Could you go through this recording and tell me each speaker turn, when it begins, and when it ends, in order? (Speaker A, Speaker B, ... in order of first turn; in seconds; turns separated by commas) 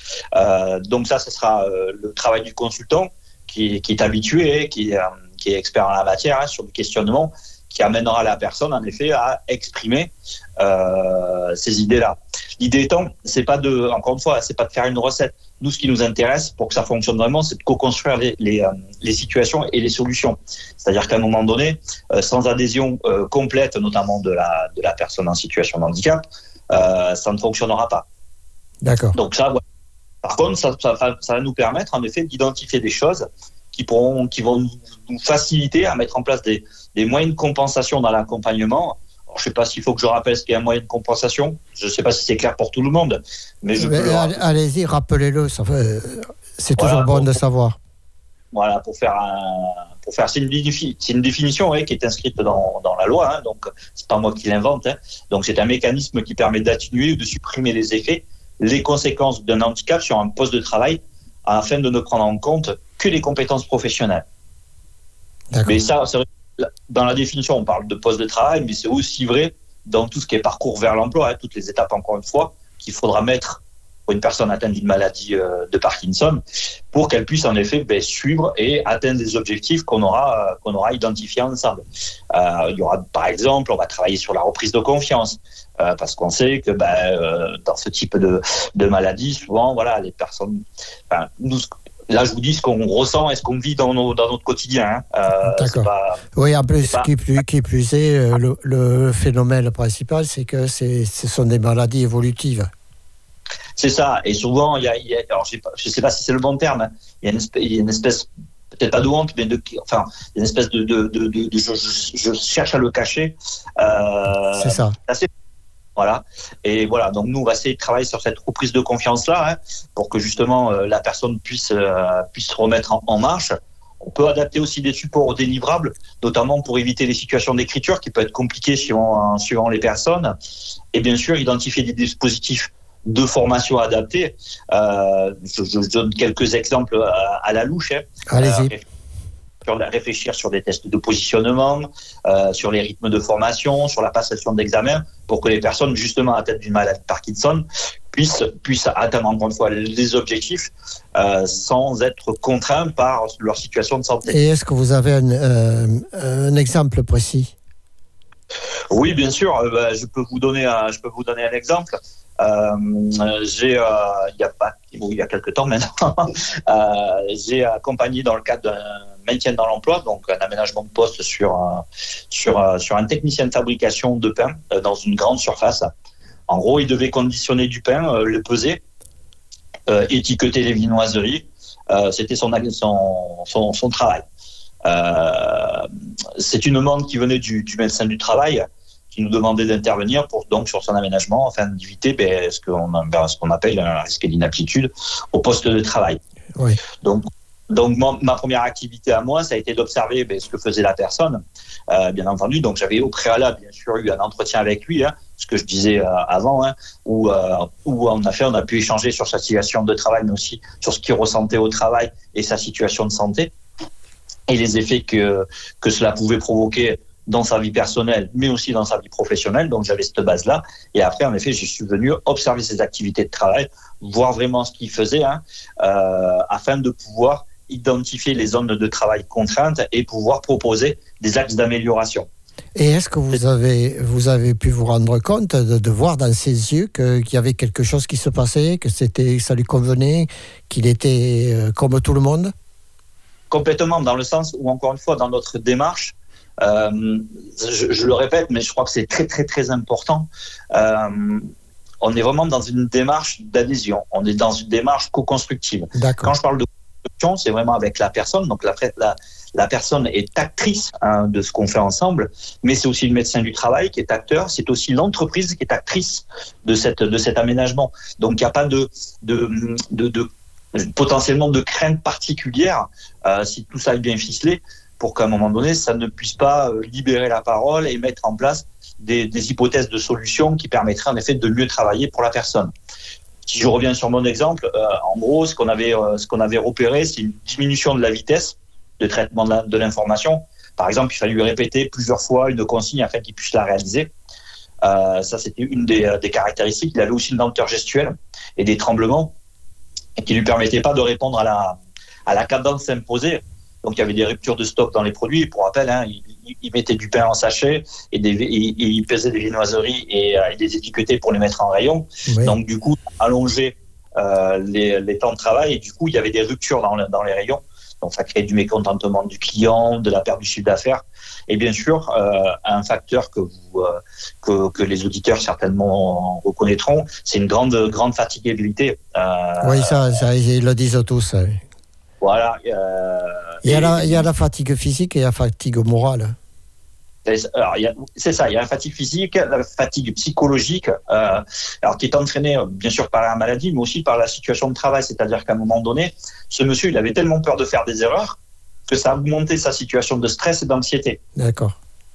Speaker A: 0.3-28.1, Speaker B: 28.8-29.2, Speaker A: 29.1-29.6, Speaker A: 30.2-44.4, Speaker B: 43.8-47.8, Speaker A: 46.8-47.4, Speaker A: 48.5-64.2, Speaker A: 65.6-76.4, Speaker A: 76.9-96.2, Speaker B: 95.5-102.7, Speaker A: 96.8-97.1, Speaker A: 103.8-115.3, Speaker B: 114.5-115.0, Speaker A: 116.0-130.3, Speaker A: 130.9-138.8, Speaker B: 138.3-138.7, Speaker A: 139.7-154.2, Speaker B: 154.3-157.5, Speaker A: 158.9-175.9, Speaker A: 176.5-178.8, Speaker A: 179.9-184.2, Speaker A: 184.8-185.9, Speaker A: 186.4-196.2, Speaker A: 197.0-213.5, Speaker A: 214.5-232.3, Speaker B: 232.8-242.5, Speaker A: 243.5-251.5, Speaker A: 252.0-256.7, Speaker B: 255.9-256.3, Speaker A: 257.2-282.7, Speaker A: 283.5-294.1, Speaker A: 294.8-299.3, Speaker A: 300.2-330.2, Speaker B: 312.3-312.6, Speaker B: 329.6-331.6, Speaker A: 332.2-334.3, Speaker B: 333.6-336.4, Speaker A: 337.3-348.4, Speaker A: 348.9-351.2, Speaker B: 351.4-351.8